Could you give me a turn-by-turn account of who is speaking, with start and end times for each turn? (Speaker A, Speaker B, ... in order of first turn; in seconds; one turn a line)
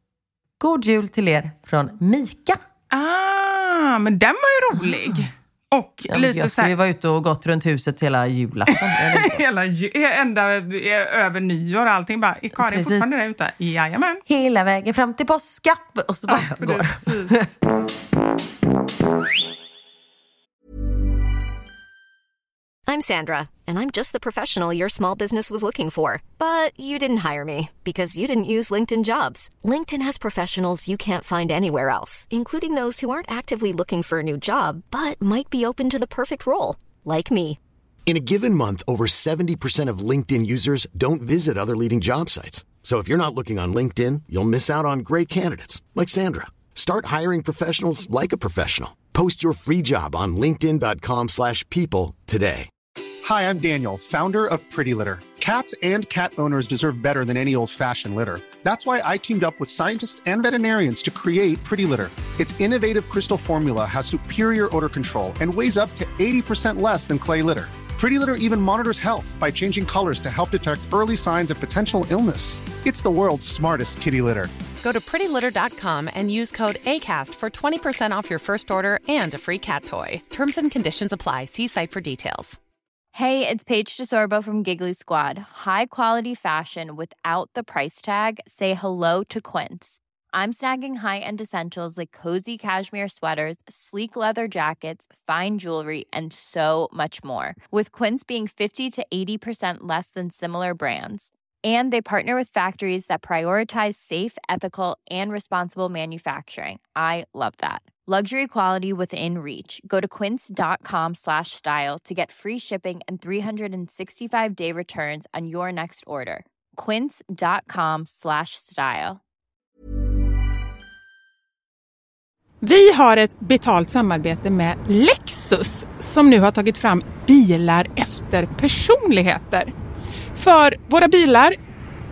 Speaker A: 0.6-2.6
Speaker B: 2.9-6.7
Speaker A: 4.8-5.2
Speaker A: 6.1-9.4
Speaker B: 8.9-14.2
Speaker A: 12.6-13.1
Speaker A: 14.3-17.4
Speaker B: 16.3-17.4
Speaker C: 22.9-37.6
Speaker D: 38.1-52.7
Speaker E: 53.2-74.5
Speaker F: 74.8-82.6
Speaker G: 83.1-119.2
Speaker B: 122.6-129.7
Speaker B: 130.4-131.6